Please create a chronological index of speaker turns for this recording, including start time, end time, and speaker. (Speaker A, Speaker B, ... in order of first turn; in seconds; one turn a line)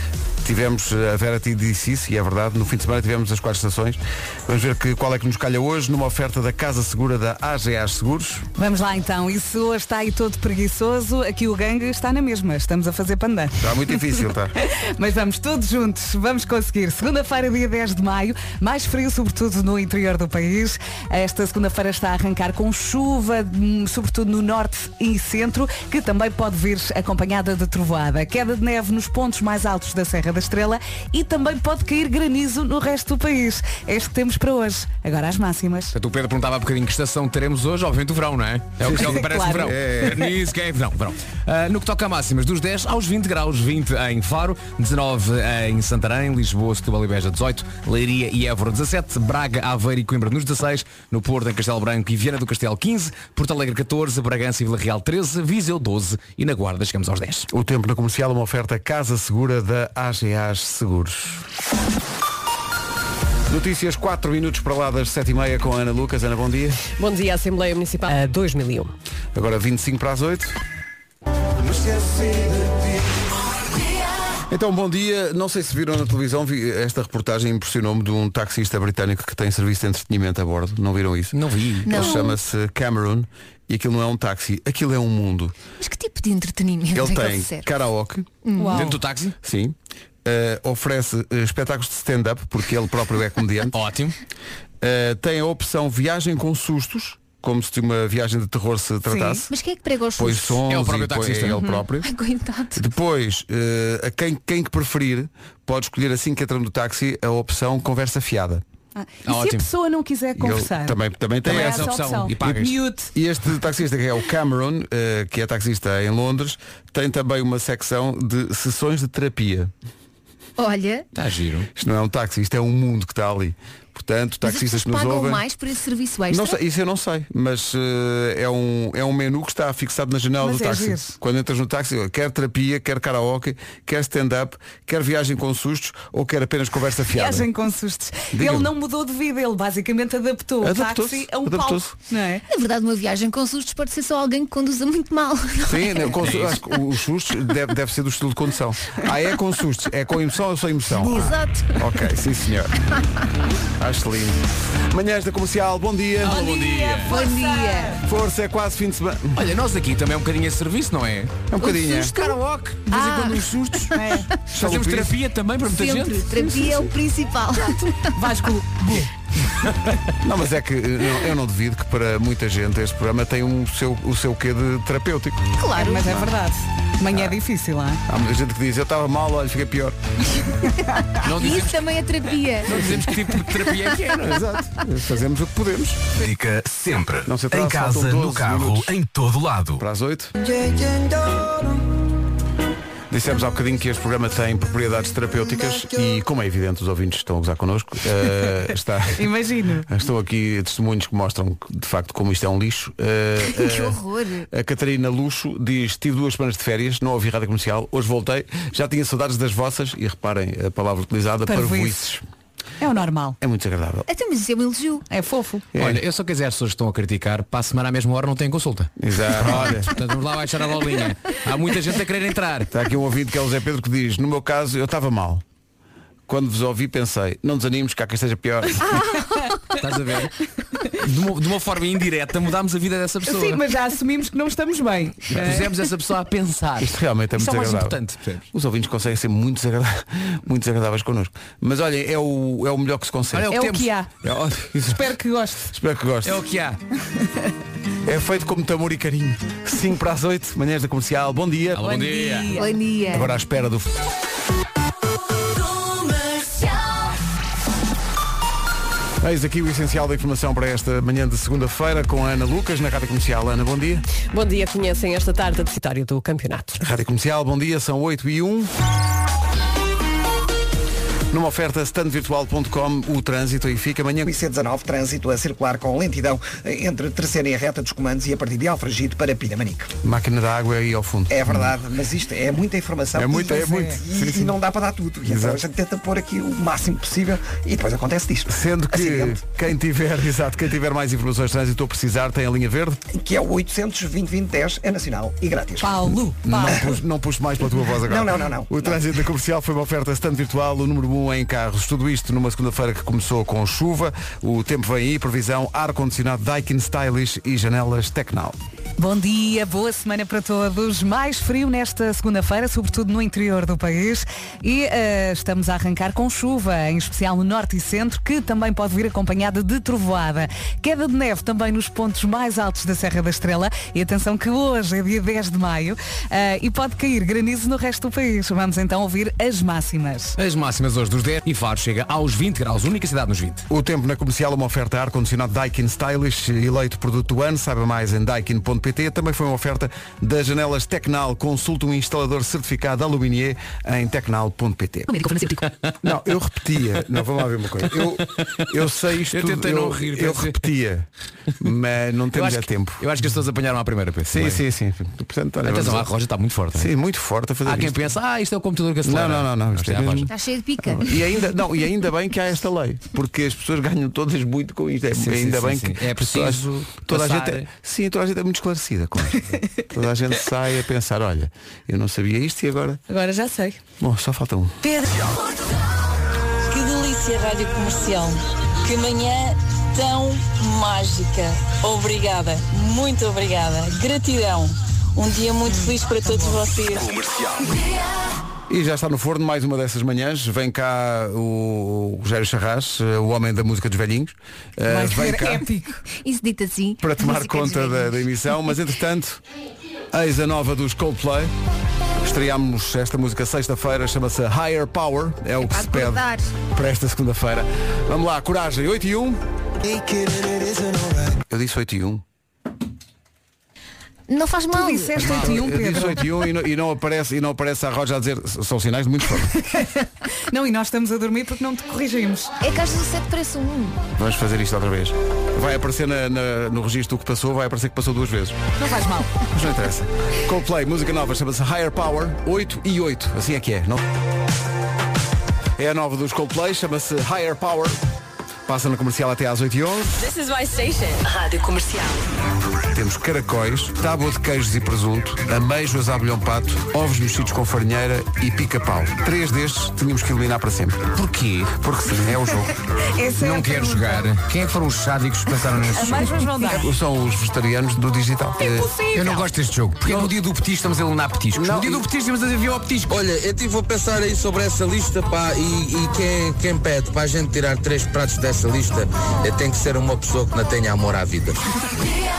Speaker A: 0.4-8.5
Speaker B: 8.6-35.9
Speaker A: 13.6-14.5
Speaker C: 35.9-57.5
Speaker A: 38.8-40.3
Speaker B: 38.8-40.3
Speaker A: 57.5-61.4
Speaker A: 63.5-66.8
Speaker D: 66.9-68.9
Speaker A: 69.3-70.6
Speaker A: 74.5-85.5
Speaker C: 81.3-82.1
Speaker E: 81.8-82.3
Speaker E: 85.8-87.6
Speaker A: 86.9-88.3
Speaker E: 88.4-89.0
Speaker B: 88.5-89.0
Speaker C: 88.7-89.3
Speaker A: 89.4-93.8
Speaker C: 93.7-94.2
Speaker A: 94.8-99.5
Speaker E: 99.2-100.6
Speaker A: 100.2-102.1
Speaker C: 100.7-101.6
Speaker E: 102.0-102.8
Speaker A: 102.7-108.6
Speaker B: 109.0-113.1
Speaker C: 109.2-109.7
Speaker A: 110.4-119.7
Speaker C: 111.4-112.7
Speaker E: 120.6-121.0
Speaker C: 121.1-121.7
Speaker A: 121.8-125.4
Speaker E: 124.4-126.6
Speaker A: 126.3-137.5
Speaker B: 130.4-131.2
Speaker B: 137.1-142.4
Speaker A: 138.3-138.7
Speaker A: 140.6-141.9
Speaker E: 142.5-146.2
Speaker A: 145.7-152.7
Speaker C: 146.2-146.6
Speaker E: 151.0-151.8
Speaker A: 153.8-156.4
Speaker C: 156.2-157.1
Speaker B: 156.2-158.0
Speaker E: 157.0-158.0
Speaker A: 158.0-159.4
Speaker C: 159.3-161.4
Speaker A: 161.5-162.2
Speaker E: 161.6-164.0
Speaker C: 162.2-166.8
Speaker B: 163.9-164.3
Speaker A: 164.5-165.2
Speaker E: 165.7-168.3
Speaker B: 168.1-169.1
Speaker A: 170.2-175.5
Speaker E: 175.6-176.3
Speaker B: 175.7-178.0
Speaker A: 178.1-180.0
Speaker E: 181.1-182.9
Speaker C: 181.2-181.8
Speaker C: 182.6-184.2
Speaker A: 182.7-183.1
Speaker A: 183.9-186.0
Speaker F: 186.2-189.8
Speaker A: 187.2-189.0
Speaker A: 189.8-190.3
Speaker A: 193.1-199.3
Speaker B: 199.1-199.9
Speaker A: 199.8-204.0
Speaker E: 203.5-204.5
Speaker A: 204.5-212.2
Speaker B: 211.4-212.0
Speaker B: 212.8-213.4
Speaker A: 213.4-214.1
Speaker E: 214.1-215.1
Speaker B: 215.1-215.6
Speaker A: 215.7-216.0
Speaker C: 215.8-222.7
Speaker A: 219.0-219.9
Speaker A: 222.7-225.4
Speaker A: 226.3-228.9
Speaker E: 229.0-229.7
Speaker C: 229.8-230.3
Speaker C: 230.9-233.6
Speaker B: 233.3-235.7
Speaker C: 235.3-238.4
Speaker A: 236.8-238.0
Speaker A: 238.5-243.6
Speaker C: 243.3-243.9
Speaker B: 243.5-244.1
Speaker A: 244.2-245.1
Speaker B: 244.8-245.7
Speaker A: 245.6-246.4
Speaker C: 246.2-246.8
Speaker A: 248.0-251.9
Speaker C: 251.7-252.5
Speaker B: 251.8-252.8
Speaker E: 252.5-253.4
Speaker A: 253.1-253.9
Speaker A: 259.2-264.0
Speaker D: 264.3-266.8
Speaker A: 266.8-268.7
Speaker A: 271.3-274.3
Speaker G: 274.2-279.9
Speaker A: 280.0-281.7
Speaker G: 281.3-289.4
Speaker A: 283.1-284.6
Speaker B: 283.3-284.0
Speaker A: 285.2-285.6
Speaker A: 288.5-293.0
Speaker G: 293.1-296.1
Speaker B: 295.8-296.8
Speaker A: 296.4-308.6
Speaker G: 298.0-299.0
Speaker B: 309.0-330.4
Speaker C: 330.4-333.6
Speaker A: 333.7-345.2
Speaker E: 345.3-345.7
Speaker A: 346.0-351.1
Speaker C: 348.3-348.6
Speaker C: 349.2-350.7
Speaker A: 351.6-353.1
Speaker C: 352.3-354.6
Speaker A: 354.3-356.1
Speaker C: 355.6-356.9
Speaker A: 356.7-358.1
Speaker C: 357.6-360.3
Speaker A: 359.0-360.3
Speaker E: 360.3-361.2
Speaker A: 360.9-373.0
Speaker C: 365.1-367.6
Speaker B: 373.1-373.8
Speaker A: 374.0-374.8
Speaker H: 376.7-387.1
Speaker B: 385.7-386.6
Speaker A: 388.7-395.7
Speaker B: 394.9-396.0
Speaker E: 396.1-398.2
Speaker A: 397.0-399.4
Speaker A: 400.1-401.5
Speaker A: 402.2-412.2
Speaker E: 405.6-406.5
Speaker E: 414.3-415.4
Speaker B: 414.7-416.3
Speaker A: 415.2-419.6
Speaker B: 419.6-420.0
Speaker B: 420.5-422.5
Speaker E: 422.6-424.0
Speaker A: 424.1-428.6
Speaker B: 428.8-429.3
Speaker A: 429.5-434.0
Speaker A: 435.8-438.0
Speaker A: 438.7-440.2
Speaker H: 440.2-441.9
Speaker D: 441.3-442.2
Speaker A: 442.9-451.1
Speaker C: 451.1-451.7
Speaker A: 451.7-452.7
Speaker B: 453.1-454.2
Speaker C: 453.4-456.5
Speaker B: 455.9-456.9
Speaker A: 456.7-458.9
Speaker B: 458.6-459.4
Speaker C: 459.1-463.1
Speaker A: 460.1-460.3
Speaker A: 461.5-462.1
Speaker I: 463.1-471.6